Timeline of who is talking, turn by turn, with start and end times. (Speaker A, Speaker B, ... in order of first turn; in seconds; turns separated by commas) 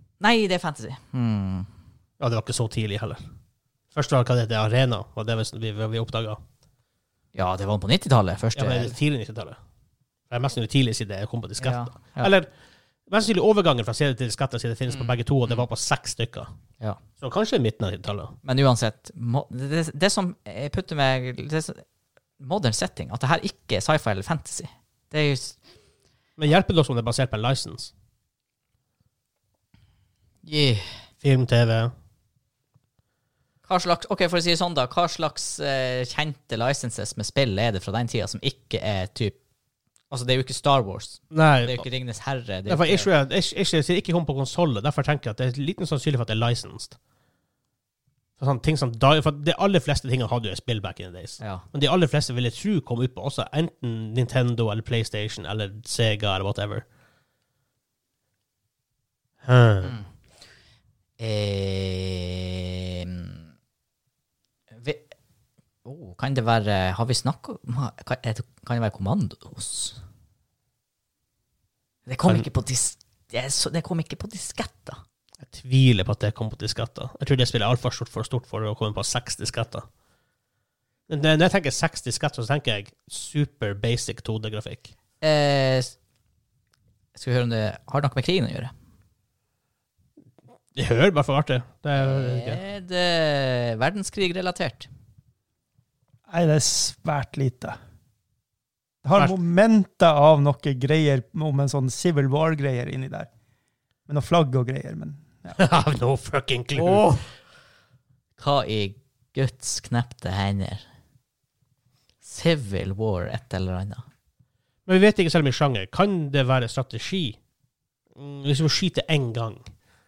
Speaker A: 0.2-1.7, Speaker B: 2.2-3.2, Speaker B: 3.9-6.4, Speaker A: 7.3-9.0, Speaker B: 8.6-9.6, Speaker B: 10.3-12.5, Speaker A: 11.6-12.3, Speaker B: 13.1-16.5, Speaker A: 14.9-15.6, Speaker B: 17.2-18.4, Speaker A: 18.4-21.8, Speaker A: 22.4-25.6, Speaker B: 26.4-27.9, Speaker A: 30.4-31.0, Speaker B: 31.2-31.9, Speaker A: 33.7-39.4, Speaker A: 40.1-43.1, Speaker B: 41.3-41.8, Speaker B: 42.7-47.0, Speaker B: 48.4-56.8, Speaker A: 51.4-51.6, Speaker B: 59.4-60.0, Speaker A: 61.2-63.5, Speaker A: 64.8-65.0, Speaker A: 65.8-70.0, Speaker A: 72.1-75.0, Speaker B: 75.4-79.9, Speaker B: 81.1-84.9, Speaker A: 85.2-85.9, Speaker A: 87.2-88.7, Speaker B: 90.8-92.6, Speaker A: 92.0-94.9, Speaker C: 96.3-97.8, Speaker C: 99.0-103.3, Speaker C: 104.1-105.6, Speaker B: 105.5-107.2, Speaker A: 106.8-107.2, Speaker A: 108.4-110.8, Speaker A: 112.2-114.0, Speaker B: 114.9-117.4, Speaker B: 118.2-119.7